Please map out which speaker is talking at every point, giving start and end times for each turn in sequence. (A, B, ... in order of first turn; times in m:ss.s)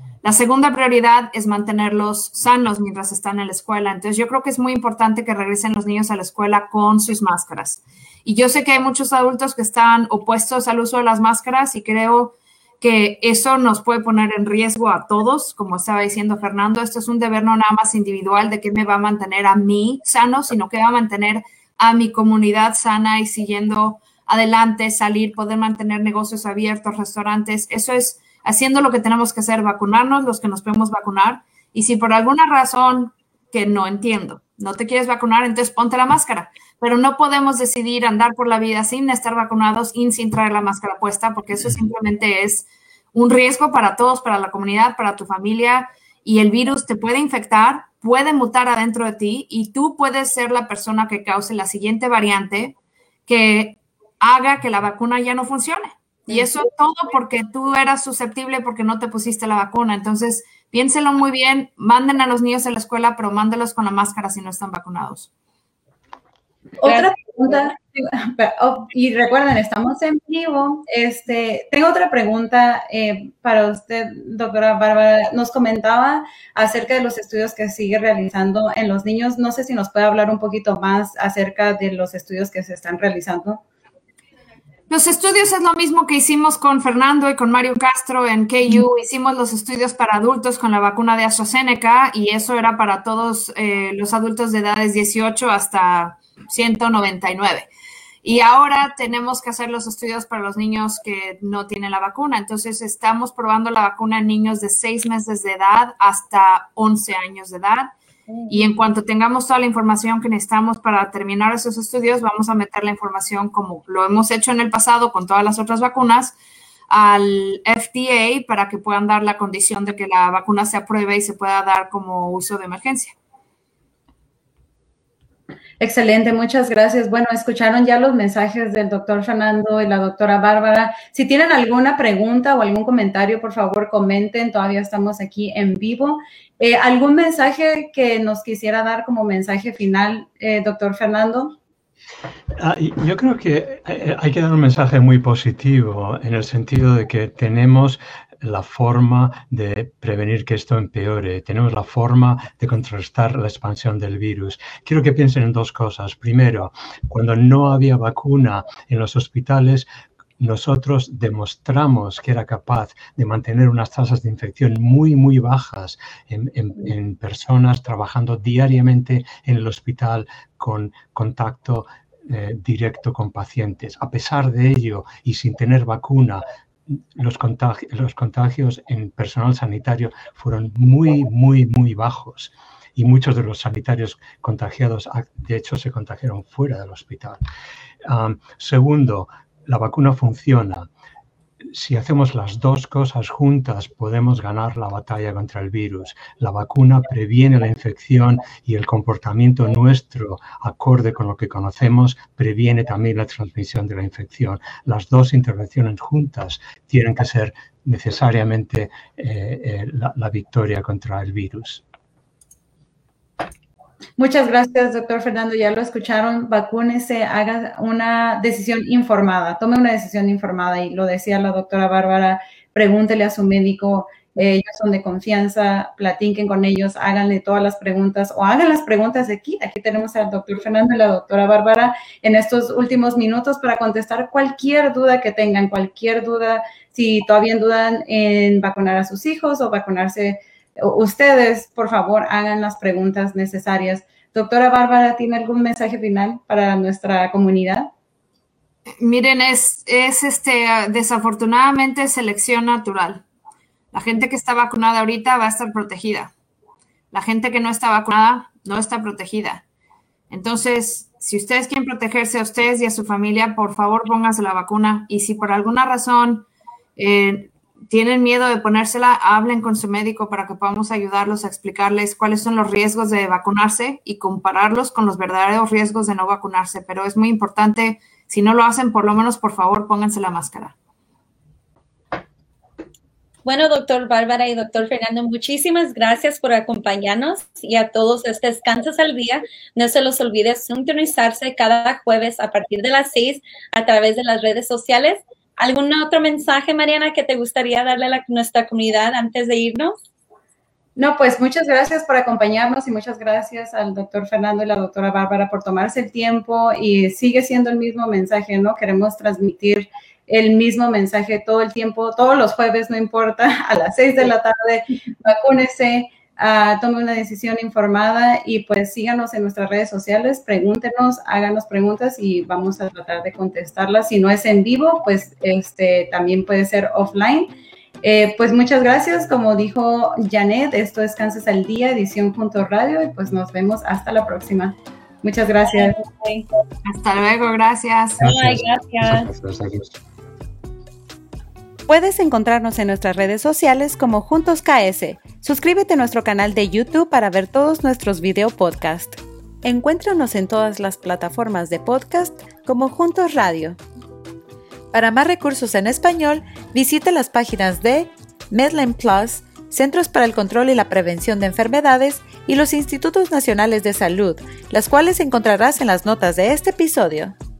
0:00.2-0:52.7 A
0:53.3-1:05.3 A
1:06.8-1:23.6 B
1:24.9-1:37.7 A
1:38.2-1:47.9 A
1:48.5-1:56.4 A
1:56.9-2:03.1 A
2:05.8-2:21.6 B
2:22.6-2:39.9 C
2:40.4-3:07.4 C
3:08.0-3:10.9 C
3:11.6-3:31.8 C
3:34.2-4:07.9 B
4:09.0-4:13.2 A
4:13.9-4:16.3 A
4:17.1-4:19.6 A
4:20.3-4:40.7 A
4:43.4-5:00.0 D
5:01.0-5:27.5 B
5:28.0-5:35.9 B
5:35.7-5:36.4 D
5:36.8-5:38.2 A
5:38.2-5:39.3 D
5:38.2-5:40.0 C
5:41.9-5:53.8 E
5:54.9-6:07.3 E